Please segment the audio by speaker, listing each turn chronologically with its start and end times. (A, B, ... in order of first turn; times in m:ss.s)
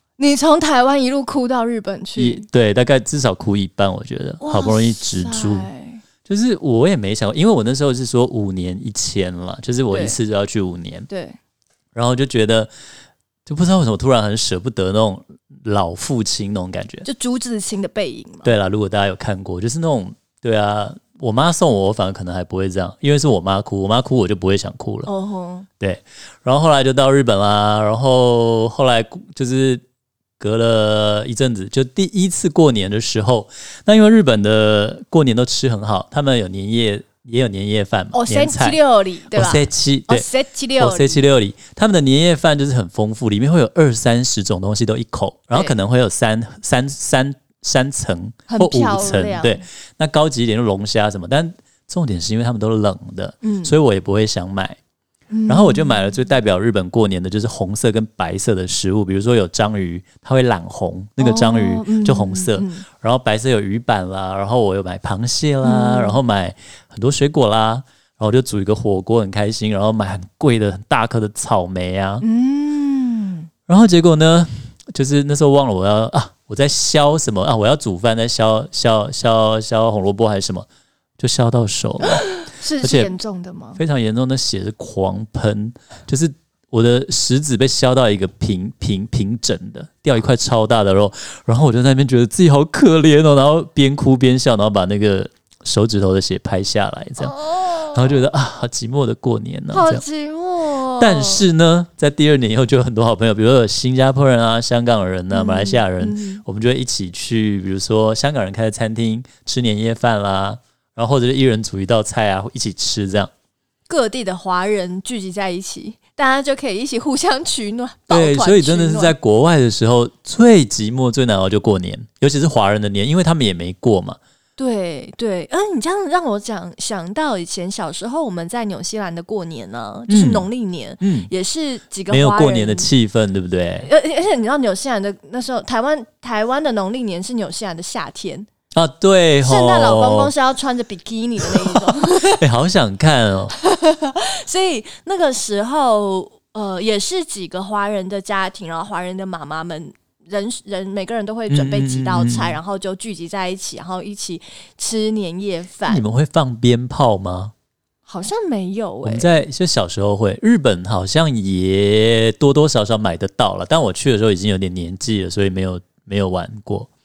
0:00.2-0:02.4 A
0:02.2-0:05.7 B
0:04.4-0:06.0 A
0:06.3-0:11.1 B
0:09.9-0:10.2 A
0:11.1-0:11.4 A
0:12.0-0:12.7 B
0:13.5-0:17.1 B
0:17.0-0:18.5 A
0:18.4-0:25.1 B
0:25.1-0:25.7 A
0:25.8-0:29.8 B
0:30.4-0:38.8 B
0:38.1-0:41.2 A
0:39.4-0:40.3 B
0:40.8-0:54.8 B
0:48.5-0:49.6 A
0:53.4-0:53.7 A
0:55.3-0:56.1 A
0:55.5-1:12.2 B
1:01.2-1:02.8 A
1:05.6-1:06.2 A
1:12.2-1:13.5 A
1:13.7-1:20.7 B
1:21.2-1:22.2 B
1:22.0-1:23.8 A
1:22.8-1:23.1 B
1:23.8-1:37.3 B
1:37.2-1:38.2 A
1:37.9-1:40.0 B
1:39.7-1:41.4 A
1:41.0-1:53.3 B
1:45.3-1:46.4 A
1:53.9-1:59.1 A
1:58.1-2:04.2 B
2:04.6-2:12.9 A
2:10.1-2:10.5 B
2:11.0-2:11.3 B
2:12.1-2:13.9 B
2:13.8-2:18.5 A
2:18.7-2:20.3 B
2:19.4-2:22.4 A
2:21.6-2:23.5 B
2:23.6-2:36.0 A
2:31.5-2:32.6 B
2:35.9-2:37.5 B
2:38.1-2:39.3 A
2:39.0-2:46.9 B